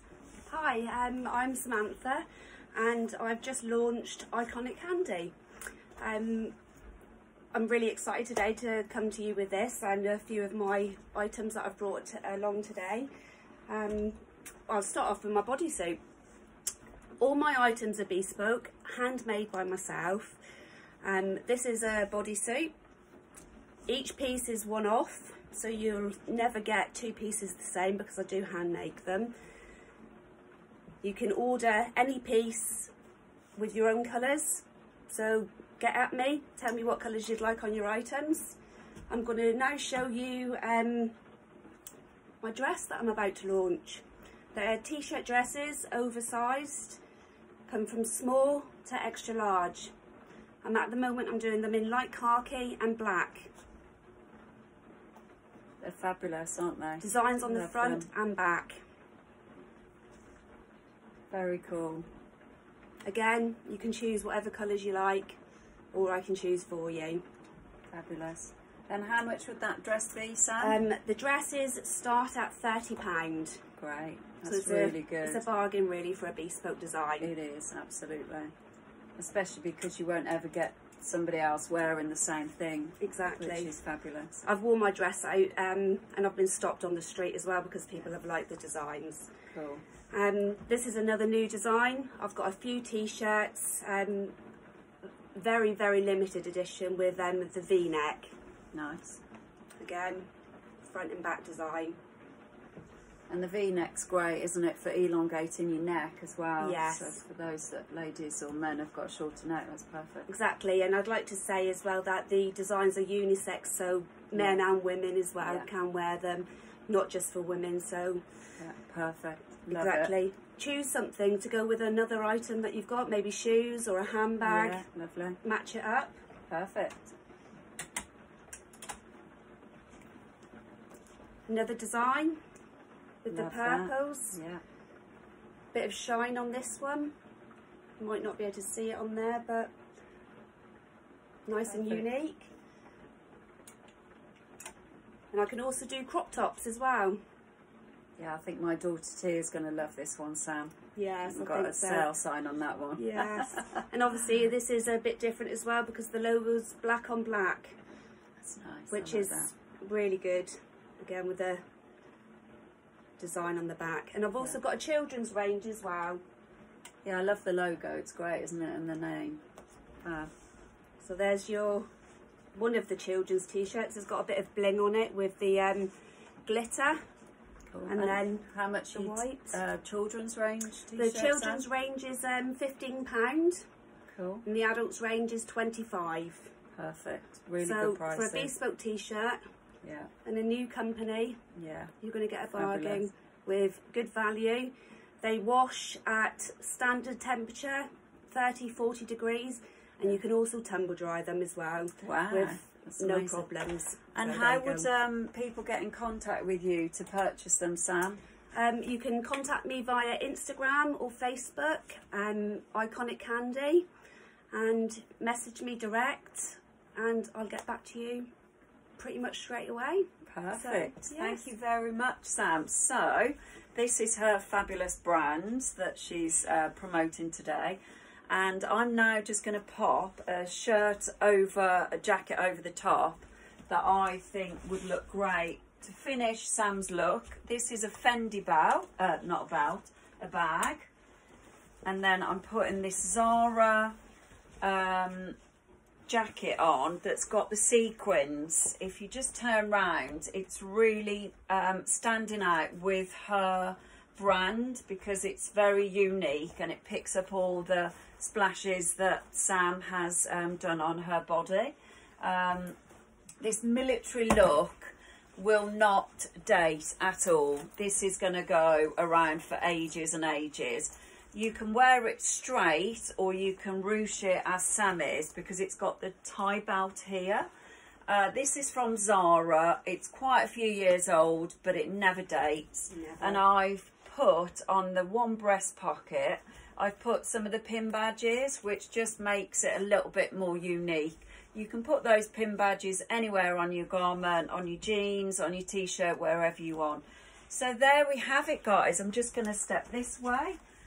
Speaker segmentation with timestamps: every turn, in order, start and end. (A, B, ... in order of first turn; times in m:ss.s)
0:00.5-0:05.3 A
0:06.0-0:06.6 A
0:07.5-0:13.1 A
0:13.7-0:16.0 A
0:17.2-0:20.4 A
0:21.0-0:22.7 A
0:23.9-0:29.3 A
0:31.0-0:32.9 A
0:33.6-0:38.6 A
0:39.1-0:41.2 A
0:42.4-0:47.0 A
0:47.7-0:49.9 A
0:50.6-0:53.5 A
0:55.8-0:58.1 B
0:57.0-0:58.8 A
1:01.3-1:02.1 B
1:03.0-1:05.4 A
1:05.9-1:07.2 A
1:07.9-1:10.8 B
1:10.6-1:13.6 A
1:13.8-1:15.5 B
1:14.4-1:17.3 A
1:17.2-1:18.5 B
1:19.2-1:24.4 B
1:23.0-1:23.7 A
1:24.4-1:29.3 A
1:29.5-1:29.8 B
1:30.1-1:34.4 A
1:35.4-1:38.3 A
1:38.7-1:39.2 B
1:39.8-1:40.3 A
1:40.8-1:42.0 A
1:43.3-1:50.3 B
1:46.6-1:47.2 A
1:50.3-1:58.2 A
1:54.4-1:54.6 B
1:55.4-1:55.7 B
1:58.6-2:00.1 B
1:59.7-2:04.8 A
2:04.4-2:05.4 B
2:05.4-2:06.2 A
2:06.5-2:07.1 B
2:11.5-2:12.4 A
2:13.2-2:14.4 A
2:13.3-2:14.6 B
2:15.7-2:17.1 A
2:18.0-2:19.7 A
2:21.5-2:22.5 A
2:21.7-2:22.0 B
2:25.3-2:27.2 A
2:28.2-2:33.8 B
2:31.0-2:32.1 A
2:33.0-2:37.8 A
2:38.4-2:39.5 B
2:38.9-2:41.6 A
2:43.2-2:46.2 A
2:47.0-2:49.4 B
2:50.0-2:50.3 B
2:51.0-2:51.9 A
2:52.6-2:55.9 A
2:56.5-2:57.0 A
2:57.7-3:01.6 B
2:57.9-2:59.6 A
3:01.0-3:03.6 A
3:04.1-3:04.4 B
3:04.4-3:06.5 A
3:06.8-3:08.5 B
3:07.6-3:09.4 A
3:09.8-3:10.1 B
3:10.2-3:11.4 A
3:11.6-3:11.9 B
3:12.0-3:24.9 A
3:12.5-3:13.1 B
3:22.0-3:23.5 B
3:24.1-3:28.2 B
3:28.5-3:33.8 A
3:34.5-3:38.3 A
3:39.0-3:41.5 A
3:40.2-4:00.9 B
4:01.8-4:04.0 B
4:04.6-4:05.4 B
4:06.1-4:22.8 B
4:23.4-4:37.5 B
4:38.1-5:00.6 B
4:42.9-4:43.4 A